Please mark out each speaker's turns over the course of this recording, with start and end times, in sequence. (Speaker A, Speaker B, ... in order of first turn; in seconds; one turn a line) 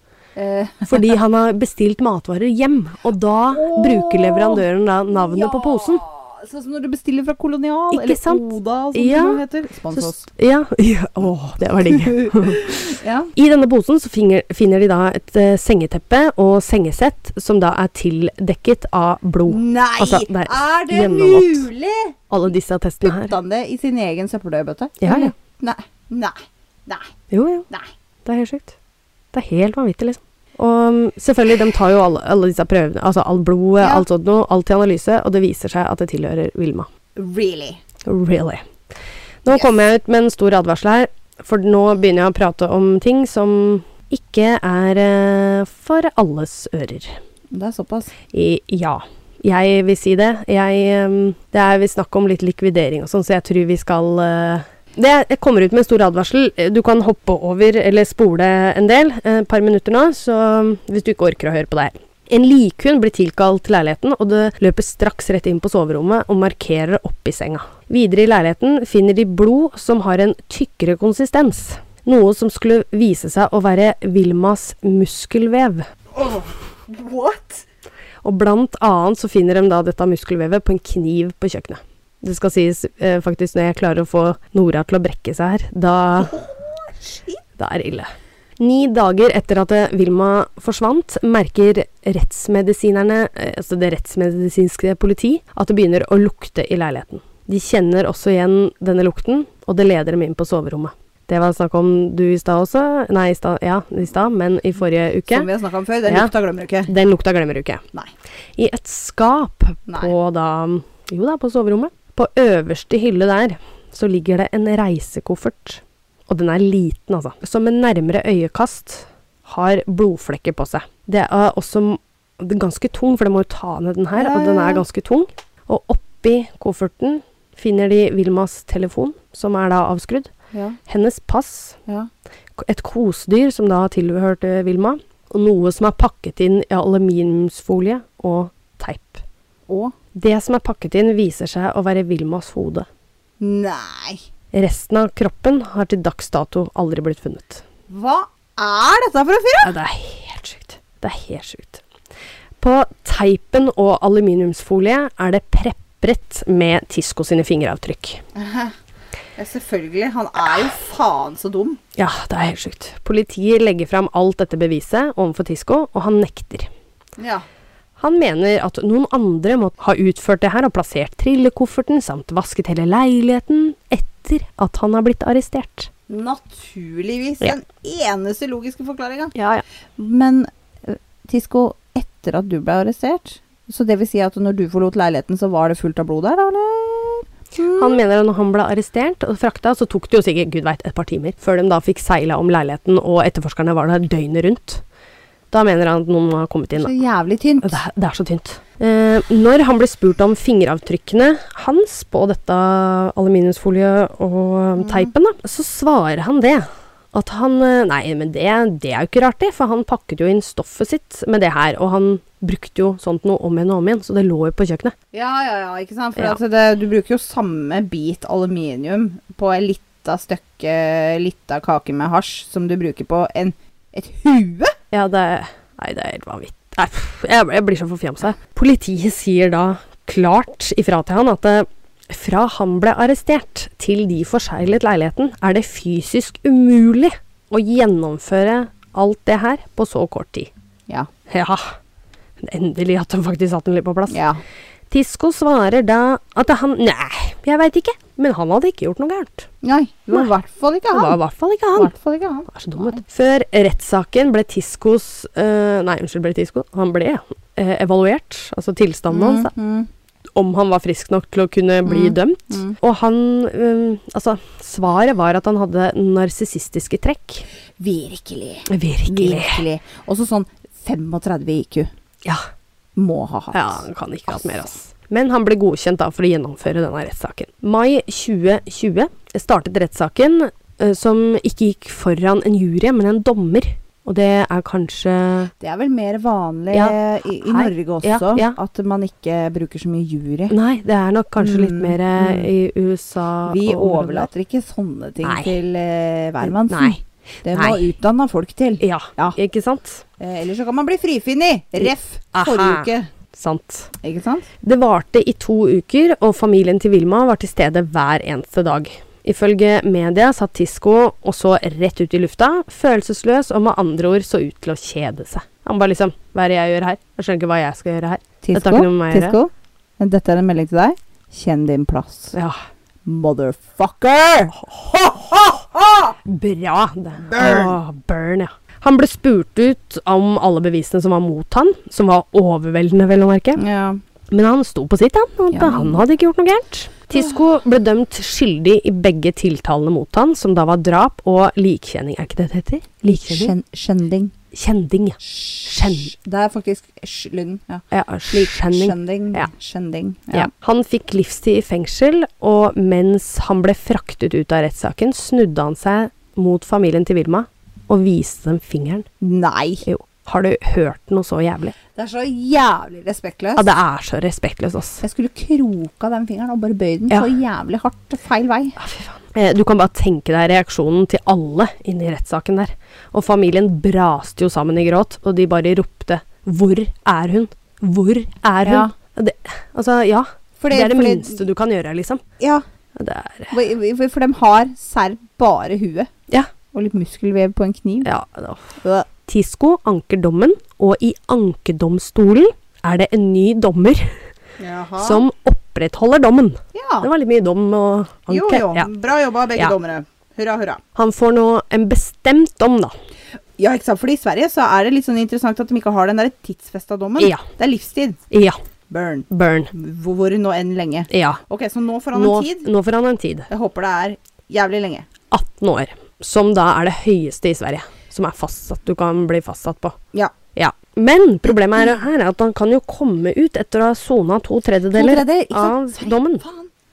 Speaker A: 0.3-1.1
Speaker B: 0.8-6.0
Speaker A: 3.5-10.2
Speaker B: 7.9-9.4
Speaker B: 9.9-21.7
Speaker A: 11.9-13.3
Speaker A: 19.4-22.1
Speaker B: 22.3-23.3
Speaker A: 23.0-27.1
Speaker B: 25.0-25.3
Speaker B: 27.3-27.6
Speaker B: 28.2-28.7
Speaker B: 29.3-36.9
Speaker A: 33.8-34.0
Speaker A: 37.1-37.8
Speaker B: 38.0-38.6
Speaker B: 39.4-47.2
Speaker A: 47.5-48.1
Speaker B: 48.3-75.9
Speaker A: 76.1-77.6
Speaker B: 78.2-86.4
Speaker A: 86.2-87.4
Speaker B: 87.6-105.5
Speaker A: 105.3-106.9
Speaker B: 106.0-106.3
Speaker B: 106.9-107.8
Speaker B: 108.6-130.3
Speaker A: 109.9-110.1
Speaker A: 124.2-124.8
Speaker A: 130.5-130.8
Speaker B: 130.8-131.8
Speaker B: 132.6-139.2
Speaker A: 139.7-139.9
Speaker B: 140.1-142.9
Speaker A: 143.4-144.2
Speaker B: 144.5-147.6
Speaker A: 147.9-149.7
Speaker B: 149.6-151.8
Speaker B: 152.6-158.2
Speaker A: 158.3-158.7
Speaker A: 159.3-161.8
Speaker B: 162.0-166.7
Speaker A: 167.2-167.4
Speaker B: 168.0-175.9
Speaker A: 176.1-179.3
Speaker B: 179.3-179.6
Speaker A: 179.9-188.0
Speaker B: 187.7-194.8
Speaker B: 195.5-196.9
Speaker A: 196.8-197.8
Speaker B: 197.6-214.9
Speaker A: 204.8-205.1
Speaker A: 215.1-224.7
Speaker B: 224.9-240.5
Speaker B: 241.3-241.8
Speaker B: 242.4-244.2
Speaker A: 244.1-244.4
Speaker B: 244.9-249.5
Speaker A: 249.6-251.2
Speaker B: 250.9-251.9
Speaker A: 251.8-253.0
Speaker B: 252.5-259.5
Speaker A: 259.1-259.9
Speaker B: 260.3-267.4
Speaker A: 261.8-262.8
Speaker A: 267.8-271.9
Speaker B: 268.7-269.6
Speaker A: 272.9-274.7
Speaker B: 273.5-285.5
Speaker A: 285.6-290.5
Speaker B: 286.7-288.6
Speaker B: 290.5-294.3
Speaker A: 291.4-292.5
Speaker A: 293.4-299.4
Speaker B: 295.2-295.6
Speaker B: 296.4-297.0
Speaker B: 297.5-297.9
Speaker B: 298.8-300.0
Speaker A: 300.2-303.1
Speaker B: 301.8-303.9
Speaker A: 304.0-304.5
Speaker B: 304.6-319.4
Speaker A: 318.4-322.4
Speaker A: 323.0-326.2
Speaker B: 326.2-333.6
Speaker A: 327.2-327.8
Speaker A: 333.6-334.0
Speaker B: 334.3-343.5
Speaker A: 335.5-336.0
Speaker A: 343.1-344.3
Speaker B: 344.5-346.1
Speaker A: 345.2-350.5
Speaker B: 347.9-349.5
Speaker B: 350.3-359.1
Speaker A: 359.2-359.8
Speaker B: 359.8-361.7
Speaker A: 361.9-363.7
Speaker B: 363.6-365.0
Speaker A: 365.0-368.8
Speaker B: 368.8-382.2
Speaker A: 378.6-378.9
Speaker A: 380.6-381.4
Speaker A: 382.4-382.6
Speaker B: 382.9-383.6
Speaker A: 383.5-386.1
Speaker A: 386.7-388.1
Speaker B: 388.0-394.2
Speaker A: 388.8-389.1
Speaker A: 394.6-395.2
Speaker B: 395.0-398.9
Speaker A: 396.7-397.1
Speaker A: 398.3-400.8
Speaker B: 400.9-402.9
Speaker A: 403.6-408.2
Speaker B: 407.2-407.4
Speaker B: 408.3-408.6
Speaker A: 408.9-412.7
Speaker B: 409.3-409.7
Speaker B: 411.1-411.4
Speaker B: 412.1-413.5
Speaker A: 413.5-415.1
Speaker B: 415.3-420.0
Speaker B: 420.5-426.4
Speaker A: 424.9-426.7